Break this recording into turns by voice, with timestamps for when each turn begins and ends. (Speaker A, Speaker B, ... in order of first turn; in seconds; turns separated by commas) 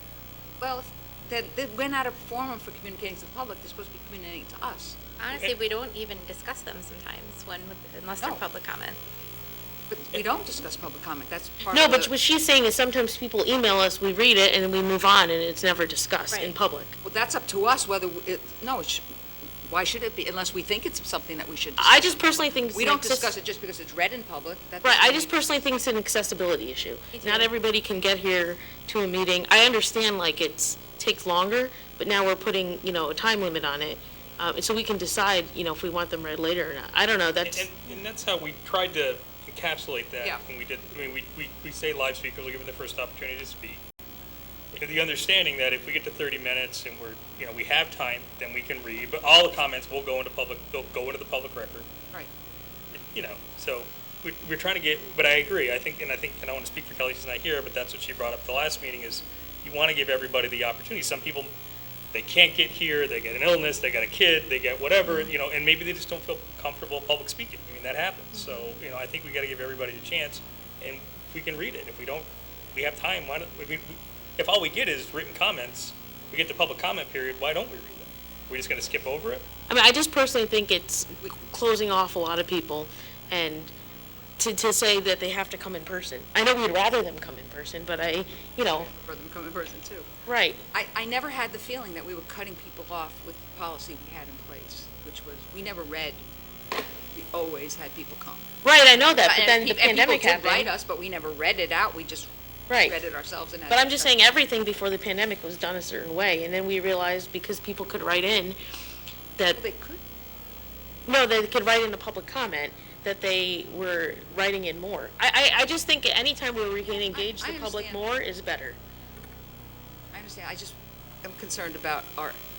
Speaker A: 0.6-5.0, Speaker B: 5.2-9.0, Speaker A: 9.9-12.1, Speaker C: 11.7-17.0, Speaker A: 17.0-25.4, Speaker C: 21.8-23.3, Speaker C: 24.8-37.7, Speaker B: 27.1-27.5, Speaker D: 37.5-43.8, Speaker D: 44.8-51.9, Speaker D: 52.9-61.5, Speaker D: 62.1-79.5, Speaker C: 79.7-83.7, Speaker C: 84.4-88.9, Speaker A: 88.7-90.1, Speaker C: 90.3-90.6, Speaker A: 90.7-96.2, Speaker A: 97.1-98.5, Speaker C: 98.6-100.7, Speaker A: 99.0-102.3, Speaker C: 102.7-103.0, Speaker A: 102.8-104.2, Speaker C: 103.7-108.6, Speaker A: 109.5-110.0, Speaker C: 111.1-118.8, Speaker A: 116.8-118.0, Speaker A: 120.1-122.4